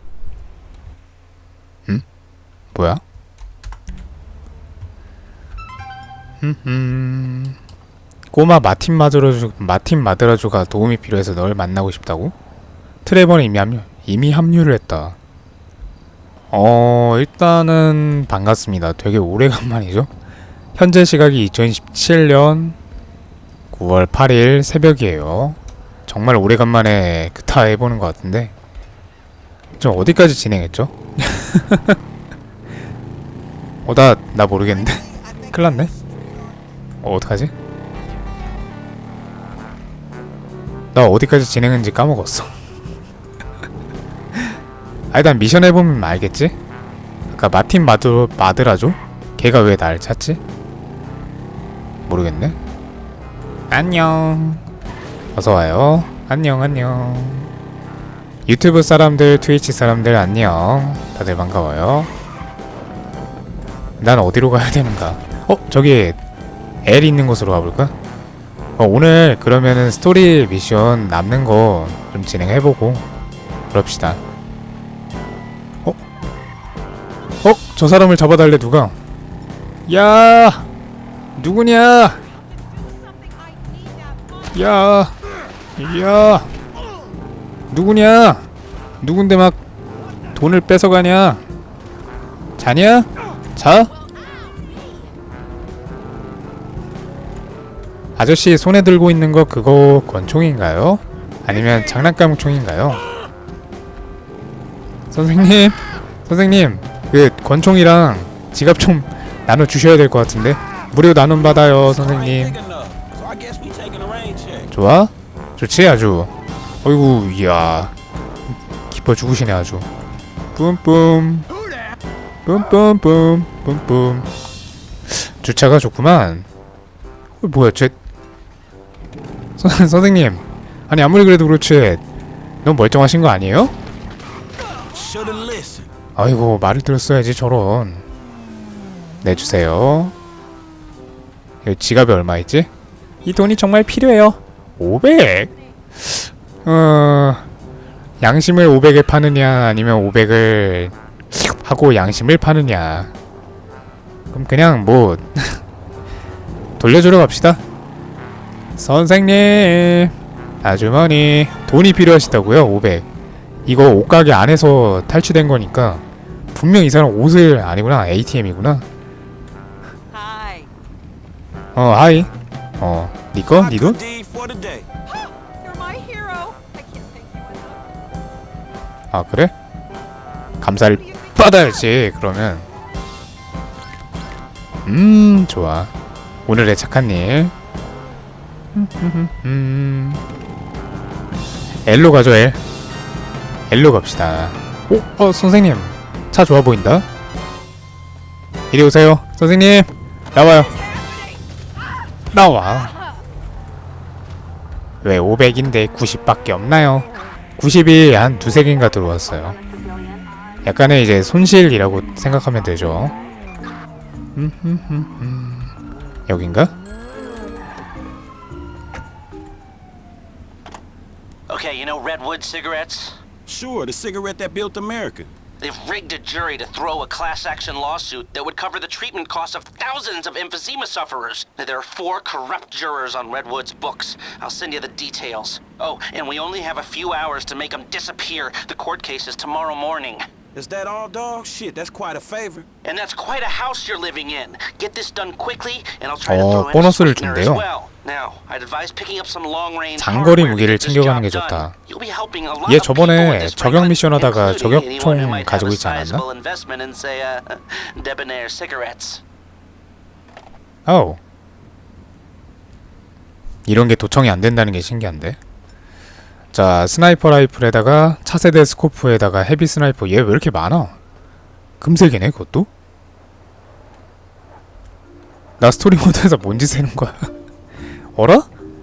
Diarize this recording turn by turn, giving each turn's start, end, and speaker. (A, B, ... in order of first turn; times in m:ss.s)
0:02.7-0:03.0 A
0:06.4-0:07.6 A
0:08.3-0:12.3 A
0:13.0-0:15.2 A
0:16.5-0:20.1 A
0:20.8-0:22.8 A
0:23.7-0:28.5 A
0:29.8-0:32.0 A
0:33.8-0:35.9 A
0:35.1-0:36.1 B
0:37.0-0:37.5 A
0:40.9-0:42.5 A
0:45.1-0:46.6 A
0:47.3-0:50.4 A
0:52.1-0:52.6 A
0:53.7-0:54.6 A
0:55.3-0:57.5 A
0:58.4-1:02.1 A
1:04.0-1:06.2 A
1:06.8-1:07.9 A
1:08.8-1:13.0 A
1:13.7-1:14.2 A
1:17.4-1:19.0 A
1:19.9-1:20.7 A
1:21.4-1:22.2 A
1:22.2-1:24.9 B
1:24.5-1:25.2 A
1:25.8-1:26.5 A
1:27.7-1:28.5 A
1:29.0-1:29.6 A
1:30.3-1:31.4 A
1:32.6-1:33.9 A
1:33.9-1:35.2 B
1:38.2-1:43.0 A
1:45.1-1:52.6 A
1:51.3-1:54.7 C
1:54.7-1:57.9 A
1:58.5-1:59.9 A
2:00.6-2:01.5 A
2:02.5-2:04.3 A
2:05.1-2:06.5 A
2:07.4-2:08.0 A
2:09.6-2:12.0 A
2:12.6-2:13.7 A
2:14.9-2:15.9 C
2:16.2-2:18.0 A
2:19.2-2:20.1 A
2:21.6-2:22.7 A
2:23.2-2:27.4 A
2:28.2-2:33.1 A
2:34.3-2:35.6 A
2:36.8-2:37.6 A
2:38.8-2:43.0 A
2:43.7-2:48.8 A
2:50.1-2:50.7 B
2:51.8-2:54.0 A
2:53.5-2:54.9 C
2:55.1-2:57.9 B
2:59.1-2:59.5 A
3:00.6-3:02.7 A
3:00.8-3:02.0 B
3:04.8-3:05.9 A
3:06.4-3:07.5 A
3:08.7-3:10.2 A
3:11.8-3:12.6 A
3:13.7-3:17.0 A
3:18.7-3:20.8 A
3:20.7-3:21.4 B
3:22.3-3:22.9 A
3:25.0-3:29.6 A
3:28.4-3:31.4 B
3:30.6-3:33.1 A
3:32.2-3:33.4 B
3:34.4-3:35.7 A
3:36.3-3:36.7 A
3:41.5-3:43.2 D
3:43.4-3:45.3 C
3:45.6-4:00.2 D
4:00.5-4:02.7 C
4:02.8-4:19.2 D
4:06.2-4:07.6 A
4:10.0-4:11.7 A
4:12.7-4:16.2 A
4:20.9-4:21.2 A
4:23.7-4:25.4 A
4:26.5-4:31.0 A
4:31.8-4:32.7 A
4:35.6-4:37.3 A
4:38.2-4:38.5 A